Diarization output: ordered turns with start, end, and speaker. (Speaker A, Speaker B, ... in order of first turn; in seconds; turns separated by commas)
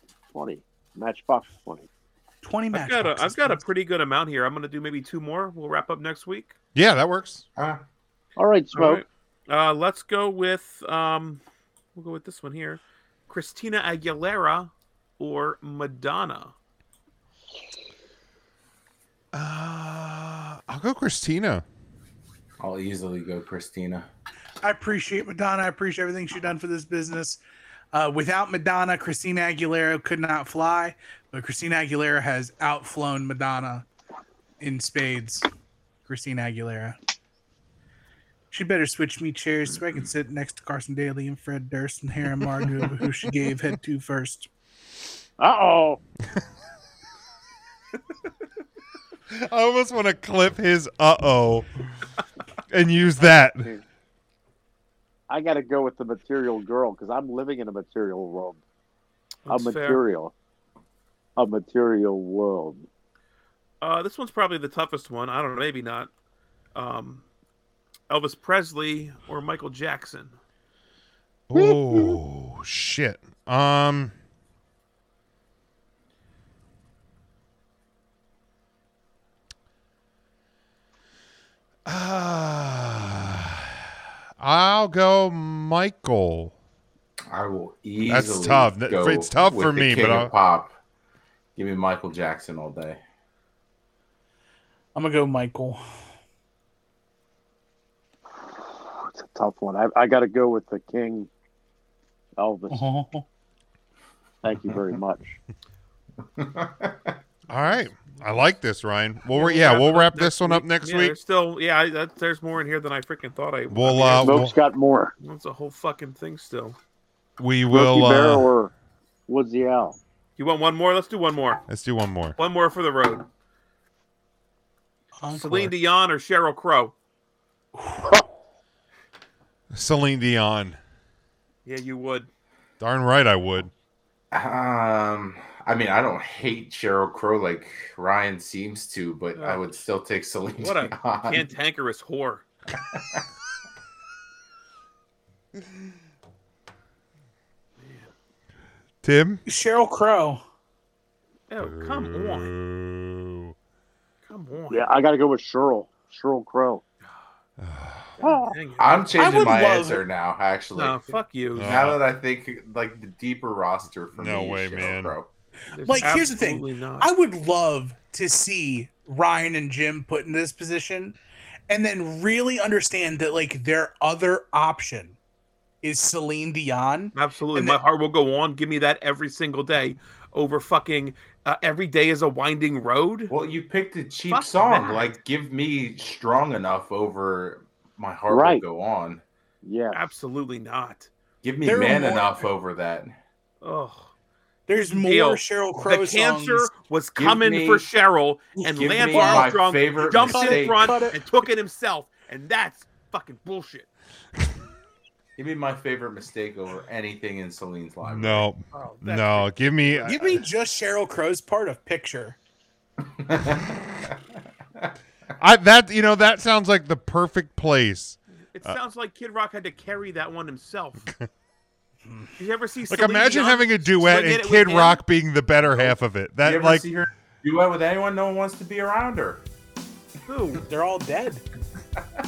Speaker A: 0.3-1.9, Speaker B: 2.4-3.6, Speaker C: 2.7-6.6, Speaker D: 6.8-7.5, Speaker E: 7.6-7.8, Speaker A: 8.4-9.0, Speaker C: 8.7-11.4, Speaker C: 11.9-16.5, Speaker D: 19.3-21.6, Speaker E: 22.6-24.1, Speaker B: 24.6-27.4, Speaker B: 27.9-33.9, Speaker B: 34.6-35.5, Speaker B: 36.1-37.0, Speaker B: 38.5-44.5, Speaker A: 45.4-46.0, Speaker D: 49.3-51.7, Speaker D: 52.7-53.7, Speaker A: 55.3-58.6, Speaker C: 59.5-60.0, Speaker A: 59.5-60.3, Speaker A: 61.4-62.9, Speaker C: 63.8-66.1, Speaker C: 66.8-67.3, Speaker C: 68.1-70.4, Speaker D: 71.5-74.1, Speaker A: 71.6-72.2, Speaker D: 81.9-86.5, Speaker E: 87.3-90.8, Speaker D: 88.1-90.3, Speaker E: 91.6-93.0, Speaker B: 95.0-95.8, Speaker A: 98.8-101.3, Speaker A: 102.4-102.9, Speaker B: 102.7-103.3, Speaker A: 104.4-105.4, Speaker E: 106.4-107.2, Speaker C: 107.5-108.4, Speaker D: 107.5-111.2, Speaker C: 109.3-114.5, Speaker D: 113.7-114.6, Speaker A: 114.2-115.1, Speaker C: 115.2-116.8, Speaker D: 117.4-118.5, Speaker A: 117.7-118.7, Speaker A: 119.3-120.0, Speaker C: 120.4-121.6, Speaker D: 121.7-122.4, Speaker C: 122.4-123.3, Speaker B: 125.2-125.7, Speaker C: 125.3-126.9, Speaker D: 129.7-130.8, Speaker C: 131.7-132.3, Speaker D: 132.8-133.7, Speaker E: 134.3-141.4, Speaker C: 139.4-139.7, Speaker C: 140.6-142.4, Speaker E: 142.7-143.2, Speaker C: 147.8-148.1, Speaker D: 149.0-149.4, Speaker B: 149.5-150.4, Speaker C: 151.5-152.5, Speaker D: 151.6-153.6, Speaker C: 154.2-154.9, Speaker A: 154.7-156.8, Speaker D: 157.6-158.2, Speaker C: 158.2-159.8, Speaker A: 158.2-158.6, Speaker E: 158.8-165.3, Speaker B: 159.2-160.0, Speaker C: 160.8-161.8, Speaker D: 161.6-162.0, Speaker D: 164.2-165.2, Speaker C: 165.7-167.1, Speaker B: 165.8-171.2, Speaker B: 171.7-175.2, Speaker B: 175.8-177.8, Speaker C: 177.1-183.3, Speaker E: 183.3-189.2, Speaker C: 184.3-185.2, Speaker A: 188.3-188.6, Speaker A: 189.6-190.1, Speaker C: 189.9-191.1, Speaker E: 191.4-193.1, Speaker B: 191.7-192.4, Speaker C: 193.6-194.1, Speaker B: 194.7-196.7, Speaker C: 194.7-203.9, Speaker E: 197.2-197.9, Speaker B: 198.6-201.2, Speaker E: 198.6-201.0, Speaker E: 205.4-208.5, Speaker D: 208.0-210.4, Speaker C: 208.7-210.2, Speaker B: 210.1-212.4, Speaker E: 213.2-214.2, Speaker D: 215.4-218.8, Speaker C: 218.5-221.1, Speaker C: 222.4-225.0, Speaker D: 222.9-226.8, Speaker E: 226.4-229.4, Speaker C: 230.3-230.7, Speaker B: 230.7-231.4